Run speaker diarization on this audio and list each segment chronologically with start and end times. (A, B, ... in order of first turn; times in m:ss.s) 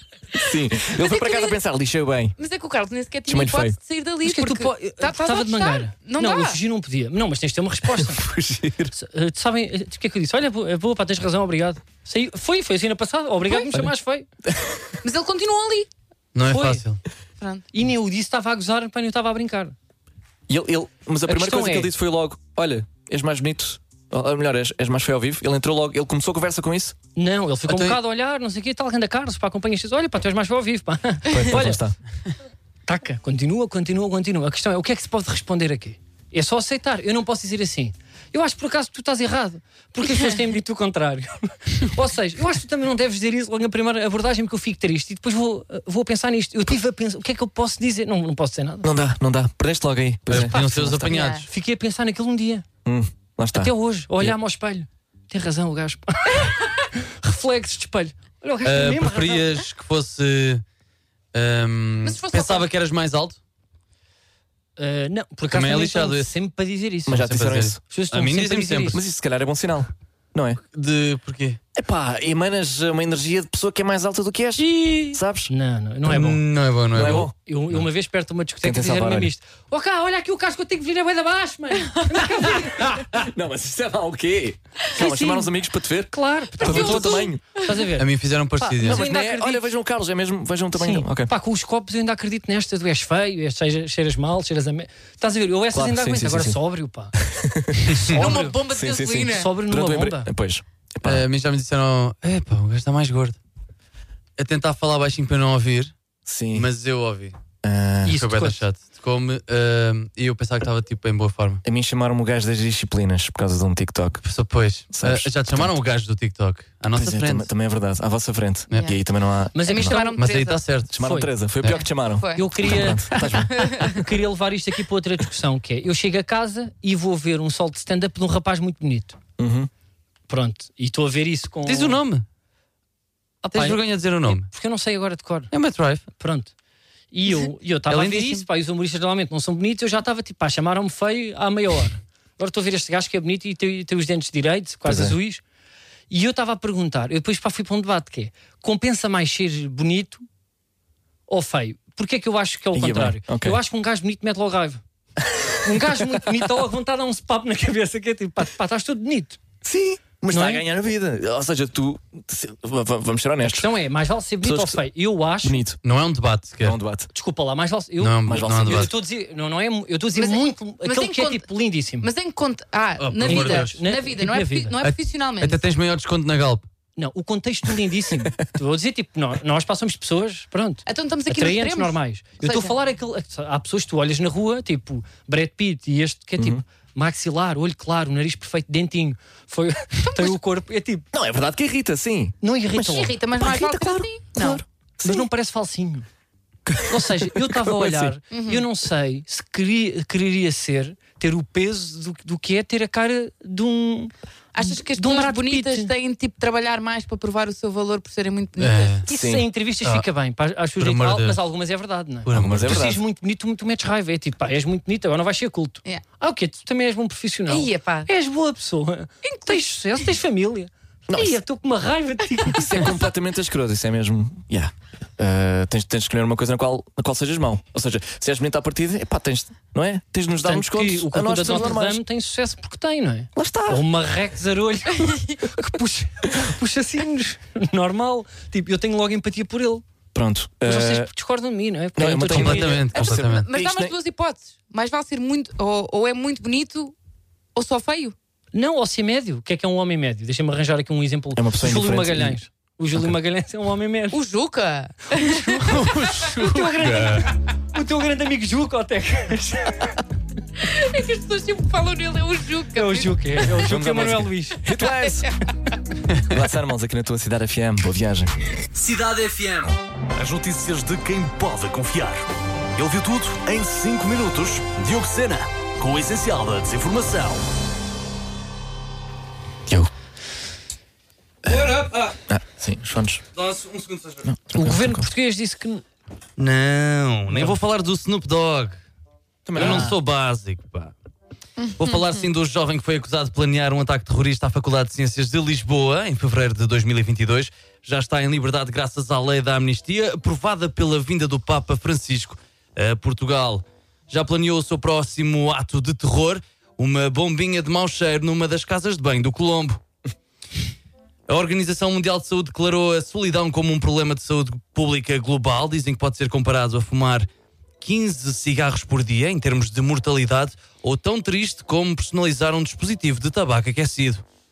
0:00.4-0:02.4 A
0:00.9-0:01.6 B
0:02.4-0:06.6 B
0:03.2-0:03.8 A
0:04.2-0:08.2 C
0:07.9-0:08.9 A
0:08.9-0:14.3 C
0:14.5-0:14.8 A
0:15.0-0:15.9 B
0:16.4-0:17.0 D
0:16.4-0:16.9 C
0:17.4-0:17.6 B
0:17.7-0:19.8 C
0:20.5-0:27.0 A
0:21.2-0:21.9 C
0:27.2-0:31.8 C
0:27.7-0:28.0 D
0:31.3-0:32.0 A
0:32.9-0:48.9 C
0:48.8-0:51.2 A
0:50.3-0:51.4 D
0:50.5-0:51.4 B
0:51.4-0:52.6 C
0:52.8-0:54.3 A
0:53.5-0:59.5 C
0:58.6-1:00.6 D
1:01.3-1:03.4 D
1:02.0-1:02.7 B
1:04.8-1:07.3 C
1:05.5-1:06.3 D
1:07.1-1:07.8 A
1:07.1-1:09.0 D
1:07.9-1:09.0 C
1:08.9-1:10.6 A
1:10.7-1:11.6 D
1:11.7-1:15.5 A
1:15.0-1:16.4 C
1:16.0-1:17.8 D
1:16.9-1:17.3 A
1:17.0-1:23.1 C
1:18.6-1:19.3 A
1:22.8-1:27.4 A
1:24.9-1:25.5 C
1:26.1-1:28.1 C
1:26.6-1:27.8 B
1:28.0-1:29.0 D
1:28.8-1:29.6 C
1:28.8-1:31.3 A
1:30.8-1:37.1 C
1:35.7-1:36.6 A
1:37.2-1:37.9 A
1:37.8-1:38.6 C
1:38.0-1:39.5 B
1:38.7-1:41.2 A
1:39.2-1:40.3 C
1:41.0-1:43.4 D
1:44.4-1:45.9 D
1:46.2-1:46.7 A
1:46.5-1:47.4 D
1:47.6-1:48.2 A
1:48.0-1:48.6 C
1:48.0-1:51.6 D
1:51.6-1:54.2 A
1:54.2-1:57.5 D
1:54.9-1:55.7 A
1:56.9-2:00.0 A
1:59.5-2:00.2 C
1:59.6-2:00.6 B
2:00.2-2:01.0 D
2:00.9-2:03.7 A
2:00.9-2:01.3 C
2:01.6-2:04.1 B
2:02.3-2:03.3 C
2:03.8-2:09.2 C
2:09.4-2:09.7 A
2:10.3-2:12.0 C
2:11.6-2:12.2 D
2:13.4-2:14.5 D
2:13.5-2:15.5 C
2:15.5-2:16.1 D
2:16.2-2:16.5 C
2:17.1-2:25.4 C
2:17.9-2:18.3 D
2:24.8-2:25.2 A
2:26.1-2:30.2 C
2:31.3-2:34.8 C
2:32.7-2:33.6 A
2:35.5-2:39.4 C
2:39.6-2:43.7 A
2:40.3-2:40.6 C
2:43.4-2:45.6 C
2:44.4-2:44.8 A
2:45.4-2:45.8 A
2:45.8-2:46.8 D
2:46.6-2:47.1 A
2:47.1-2:52.1 C
2:48.0-2:48.9 D
2:48.2-2:48.9 A
2:50.1-2:51.5 B
2:52.0-2:55.6 B
2:53.0-2:53.8 D
2:53.2-2:54.8 C
2:54.8-2:56.6 D
2:57.0-3:11.0 C
3:00.9-3:02.8 B
3:06.4-3:06.6 A
3:10.1-3:10.4 B
3:11.1-3:15.3 A
3:12.4-3:13.2 C
3:12.8-3:14.6 B
3:15.0-3:16.0 C
3:16.6-3:18.2 A
3:16.8-3:25.9 C
3:18.3-3:18.6 B
3:24.5-3:29.0 B
3:28.6-3:29.0 D
3:29.0-3:43.0 C
3:29.1-3:29.4 A
3:30.8-3:31.4 D
3:32.2-3:32.9 D
3:32.3-3:33.0 A
3:37.5-3:38.1 B
3:39.2-3:39.6 B
3:41.1-3:41.4 A
3:42.5-3:52.0 A
3:50.4-3:59.8 C
3:53.4-3:53.9 A
4:00.1-4:01.1 A
4:00.6-4:02.9 C
4:02.0-4:03.9 A
4:02.3-4:03.5 D
4:02.9-4:06.9 B
4:07.5-4:08.2 B
4:08.5-4:14.2 C
4:11.4-4:12.4 A
4:14.1-4:16.3 B
4:15.1-4:20.0 C
4:15.6-4:17.3 D
4:20.6-4:23.7 B
4:22.7-4:24.7 C
4:23.4-4:25.3 A
4:24.8-4:25.3 B
4:26.3-4:28.4 A
4:28.7-4:37.4 E
4:41.4-4:42.2 D
4:42.3-4:43.2 A
4:43.4-4:44.3 D
4:44.2-4:45.1 A
4:44.5-4:45.8 C
4:46.4-4:48.8 D
4:49.4-4:49.9 A
4:49.5-4:50.9 D
4:49.6-4:49.9 C
4:51.6-4:52.0 B
4:51.8-5:09.8 D
5:11.3-5:17.3 D
5:17.8-5:24.2 D